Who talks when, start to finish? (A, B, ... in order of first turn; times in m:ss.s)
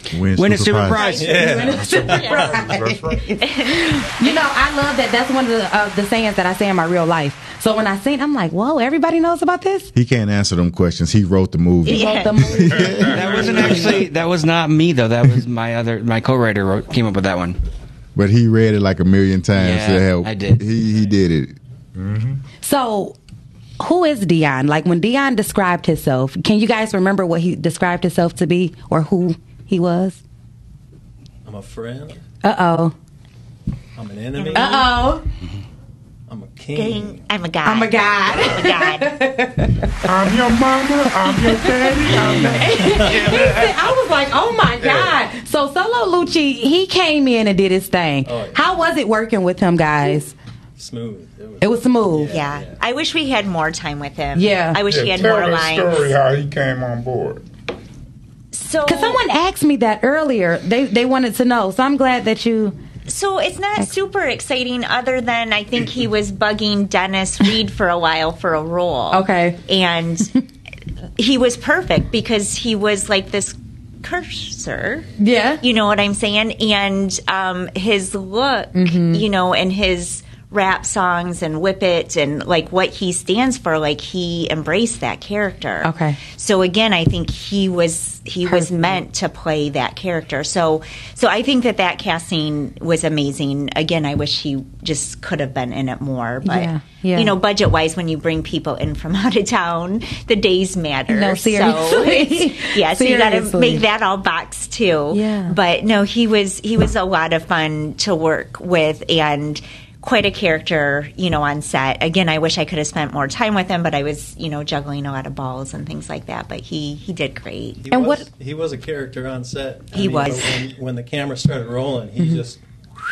0:00.1-0:01.0 A
0:00.3-0:01.8 B
0:00.9-0:02.5 C
0:01.1-0:02.7 D
0:01.3-0:09.9 E
0:01.7-0:03.4 F
0:03.4-0:04.4 C
0:09.9-0:13.9 A
0:11.8-0:12.4 C
0:11.9-0:13.1 E
0:12.7-0:14.0 F
0:13.1-0:17.6 B
0:18.2-0:21.6 A
0:19.6-0:20.7 B
0:22.0-0:22.4 F
0:22.6-0:23.2 E
0:23.8-0:30.2 E
0:31.4-0:32.2 D
0:32.4-0:32.9 E
0:34.0-0:35.0 D
0:34.4-0:34.7 C
0:34.5-0:35.2 E
0:36.3-0:37.2 D
0:36.7-0:39.2 C
0:37.6-0:40.1 E
0:40.0-0:43.7 F
0:41.2-0:50.4 E
0:42.8-0:43.7 D
0:44.8-0:45.2 F
0:48.2-0:48.9 D
0:50.8-0:52.8 D
0:51.6-0:52.3 E
0:52.3-0:56.1 C
0:54.4-0:54.8 E
0:54.9-0:57.4 F
0:58.5-0:59.2 C
0:58.9-1:02.8 E
1:03.1-1:10.3 C
1:09.1-1:09.6 E
1:11.2-1:15.1 C
1:15.2-1:15.6 E
1:15.6-1:57.8 C
1:18.8-1:19.2 E
1:25.8-1:26.2 E
1:28.4-1:29.0 E
1:36.4-1:37.3 E
1:41.1-1:43.8 E
1:45.1-1:45.6 E
1:57.8-2:02.6 D
1:57.9-1:58.3 E
1:59.9-2:00.7 C